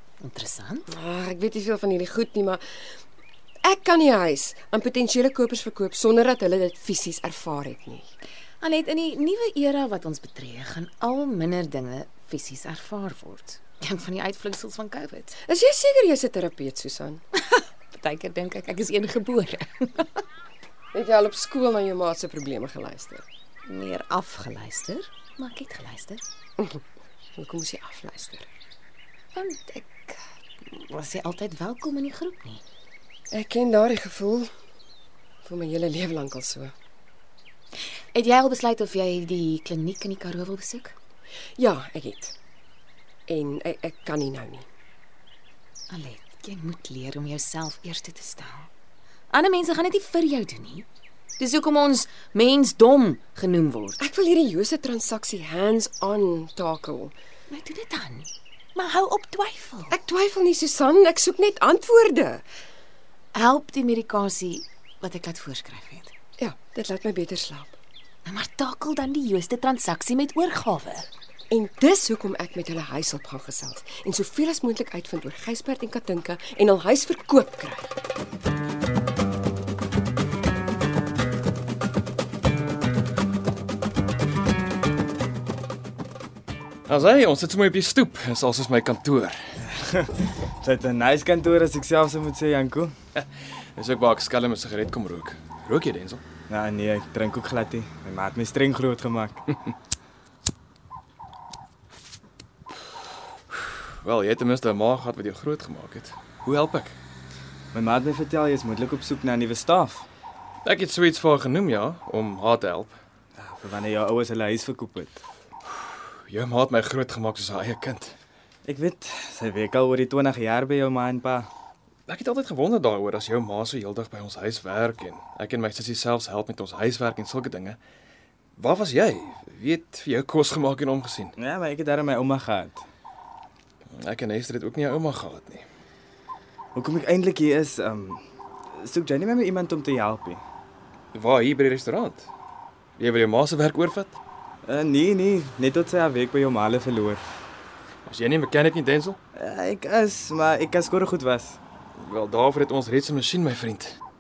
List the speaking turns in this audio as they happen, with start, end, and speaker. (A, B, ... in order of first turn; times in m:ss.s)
0:00.2-0:00.9 A
0:00.9-0:03.0 B
0:03.6-0:08.1 B
0:08.6-0:15.3 A
0:15.4-0:17.2 B
0:17.4-0:20.2 A
0:20.9-0:23.2 B
0:23.7-0:26.2 A
0:27.4-0:28.5 B
0:29.4-0:32.6 A
0:33.3-0:34.5 B
0:35.4-0:36.7 B
0:38.1-0:40.9 A
0:41.6-0:42.3 B
0:43.3-0:44.7 B
0:45.9-0:48.7 A
0:49.3-0:50.8 A
0:51.4-0:54.0 A
0:54.0-0:57.2 B
0:57.5-0:59.9 A
0:59.9-1:02.4 B
1:03.3-1:06.1 A
1:06.4-1:07.8 B
1:08.3-1:11.1 A
1:11.5-1:17.9 B
1:26.9-1:29.4 C
1:29.7-1:32.9 D
1:33.2-1:36.2 C
1:36.5-1:39.6 D
1:43.5-1:47.0 C
1:47.7-1:50.1 D
1:50.6-1:53.0 C
1:53.4-1:55.2 D
1:56.3-1:58.2 C
1:58.6-2:01.5 D
2:02.1-2:07.8 C
2:08.6-2:11.3 C
2:11.4-2:12.8 D
2:13.9-2:15.6 C
2:16.7-2:20.4 D
2:21.1-2:22.3 C
2:23.0-2:24.2 C
2:24.7-2:27.2 D
2:28.1-2:29.2 C
2:29.3-2:31.6 D
2:32.0-2:34.0 C